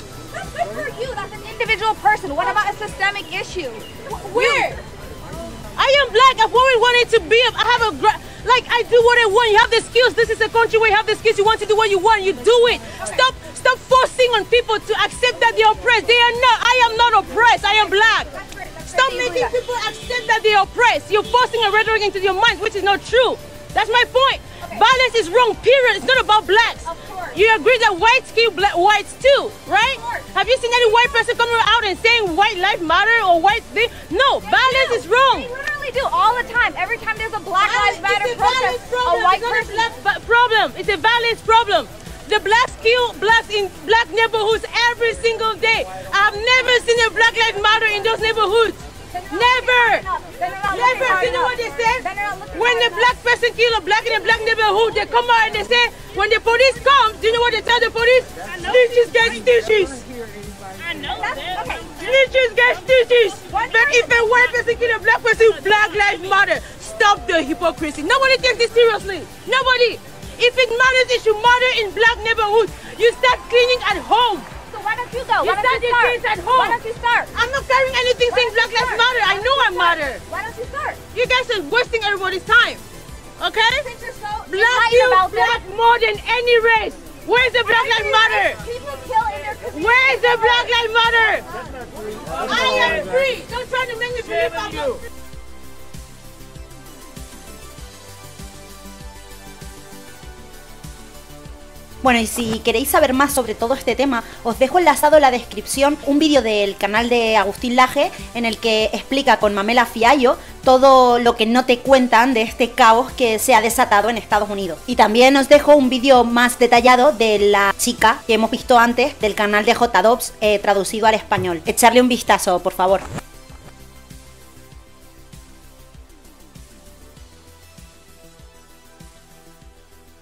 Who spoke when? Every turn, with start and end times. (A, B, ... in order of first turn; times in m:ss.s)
0:00.5-0:04.7 A
0:04.3-0:04.8 B
0:05.7-0:18.3 B
0:18.9-0:35.5 B
0:18.9-0:19.4 A
0:27.0-0:27.3 A
0:34.5-0:39.8 A
0:37.5-1:00.0 B
0:49.3-0:51.5 A
0:52.0-0:53.0 A
1:00.9-1:14.5 B
1:01.5-1:01.8 A
1:03.6-1:04.1 A
1:14.7-1:17.3 A
1:15.4-1:16.8 B
1:17.3-1:20.2 B
1:18.5-1:18.9 A
1:20.3-1:21.0 A
1:21.1-1:22.8 B
1:23.4-1:28.6 B
1:23.8-1:25.6 A
1:27.8-1:29.8 A
1:29.6-1:31.4 B
1:32.3-1:35.0 B
1:42.0-2:03.1 C